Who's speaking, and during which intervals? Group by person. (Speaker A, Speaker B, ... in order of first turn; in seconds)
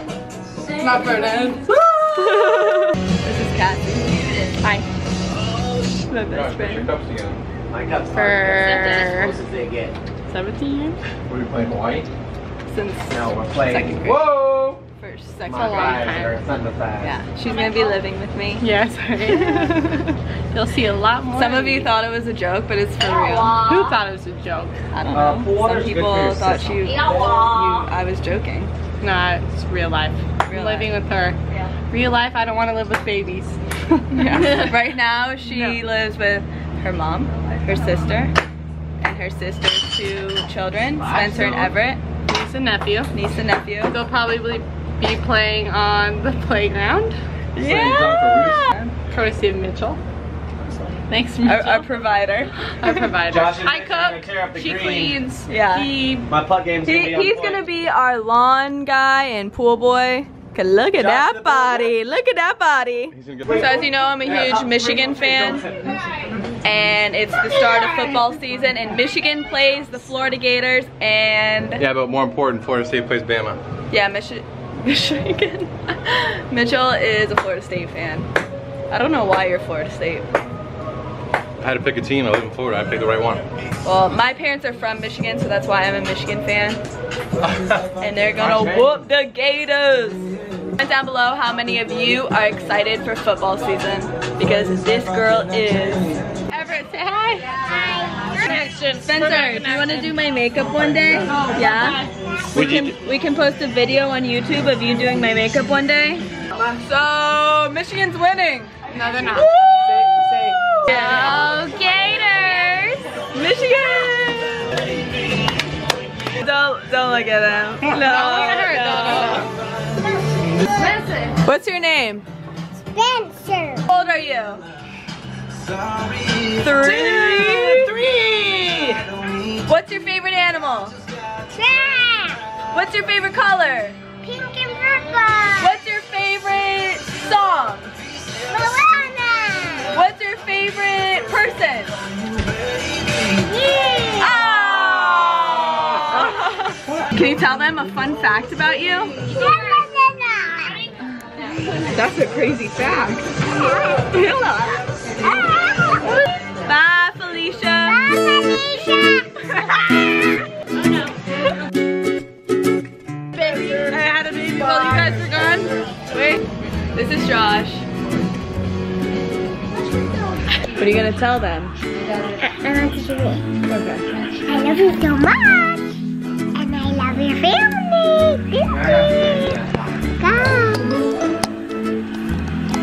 Speaker A: 0.8-1.7, 4.6-4.9, 8.1-9.4, 10.3-11.0, 15.5-16.4, 18.6-19.9, 20.5-21.9, 23.0-24.8, 29.0-31.4, 31.9-34.7, 35.5-35.8, 41.0-43.1, 43.9-47.2, 49.1-50.0, 51.1-51.9, 52.8-56.3, 96.5-100.2, 101.1-102.1, 108.9-109.5, 110.9-113.0, 117.9-119.5, 120.7-121.3, 163.7-165.7
Speaker B: 1.6-4.6, 5.6-6.9, 12.7-14.4, 15.0-16.1, 17.0-18.7, 19.2-20.2, 21.3-23.7, 24.9-28.7, 30.5-30.9, 34.1-38.4, 39.0-42.0, 43.1-44.0, 47.5-48.7, 51.4-52.5, 55.5-56.2, 56.8-65.7, 66.6-71.8, 73.9-78.3, 78.9-80.3, 83.8-86.8, 88.0-90.3, 90.8-96.2, 99.0-108.8, 109.3-110.1, 110.9-114.8, 116.4-119.5, 121.4-122.3, 123.8-124.6, 126.5-128.0, 129.7-131.0, 132.7-134.0, 135.6-137.9, 139.9-141.9, 144.2-145.4, 146.1-149.2, 151.9-153.4, 154.1-155.7, 156.6-158.1, 163.4-166.4, 166.9-167.8, 170.7-171.8, 173.7-174.0
Speaker C: 6.3-7.4, 11.3-12.1, 63.1-63.8, 71.8-73.6, 81.6-83.5, 102.6-103.0
Speaker D: 7.7-10.0, 13.1-14.8, 15.5-17.2, 25.1-27.3, 47.6-48.6, 53.3-55.2, 56.3-57.7, 61.0-61.9, 63.5-65.9, 88.4-89.1, 126.7-129.0, 178.9-179.6
Speaker E: 122.9-123.8, 131.5-132.4, 134.2-135.7, 138.4-139.9, 143.4-144.5, 149.3-150.9, 153.6-154.0, 157.9-159.4, 172.4-173.5, 174.4-175.9, 176.6-178.8, 180.2-180.8